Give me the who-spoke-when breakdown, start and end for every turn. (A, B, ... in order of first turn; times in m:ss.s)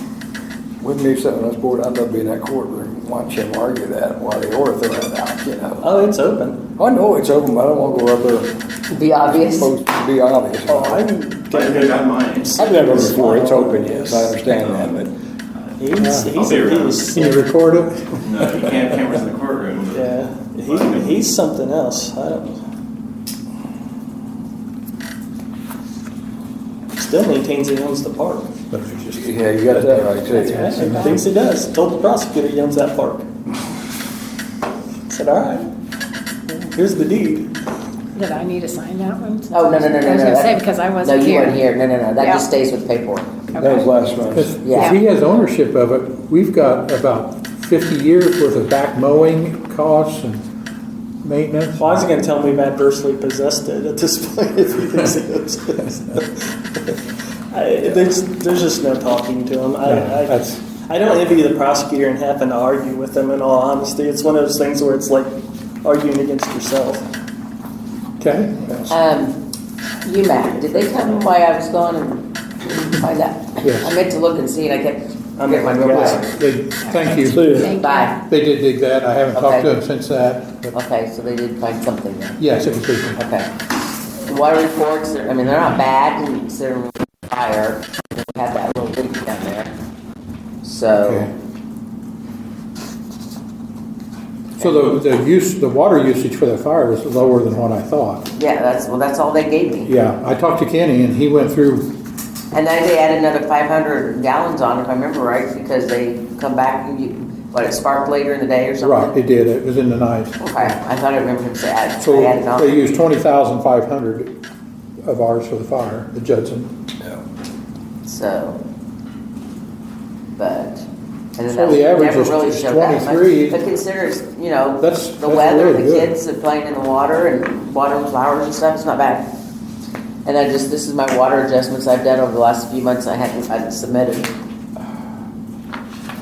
0:00.8-0:05.9 A
0:05.8-0:06.6 B
0:06.8-0:08.5 A
0:08.9-0:09.7 C
0:09.2-0:11.0 A
0:10.7-0:14.4 B
0:11.5-0:13.0 D
0:12.6-0:15.1 A
0:14.5-0:15.0 D
0:15.8-0:17.4 B
0:16.0-0:16.4 E
0:16.4-0:17.2 D
0:17.1-0:18.7 E
0:18.2-0:21.3 D
0:19.9-0:22.6 B
0:27.0-0:28.5 B
0:28.7-0:31.2 E
0:29.1-0:31.1 A
0:30.3-0:33.3 B
0:35.1-0:35.7 B
0:36.5-0:37.5 B
0:38.2-0:41.6 F
0:39.5-0:43.4 C
0:42.2-0:42.4 F
0:43.5-0:43.9 F
0:43.6-0:44.6 A
0:44.4-0:50.4 E
0:44.6-0:45.0 C
0:51.2-0:52.1 E
0:51.8-0:56.9 B
0:57.5-1:07.1 B
0:59.8-1:00.6 E
1:08.2-1:08.8 E
1:08.9-1:09.4 C
1:10.0-1:16.2 C
1:10.4-1:11.3 B
1:13.6-1:14.0 E
1:15.4-1:16.3 B
1:15.9-1:17.6 E
1:16.8-1:18.2 F
1:17.3-1:17.8 A
1:17.6-1:18.2 C
1:18.2-1:20.7 E
1:19.3-1:19.8 C
1:20.7-1:22.4 C
1:22.4-1:23.2 E
1:23.2-1:23.5 C
1:24.3-1:29.7 C
1:30.6-1:31.3 C
1:31.0-1:31.3 E
1:34.6-1:38.3 E
1:34.6-1:35.0 C
1:38.4-1:39.9 C
1:39.8-1:41.9 E
1:42.5-1:49.2 C
1:48.8-1:50.7 E
1:50.4-1:52.8 C
1:52.0-1:54.3 E
1:55.0-1:56.7 E
1:58.0-1:58.6 C
2:00.4-2:09.3 C
2:01.4-2:03.6 E
2:04.8-2:06.2 E
2:10.2-2:14.3 C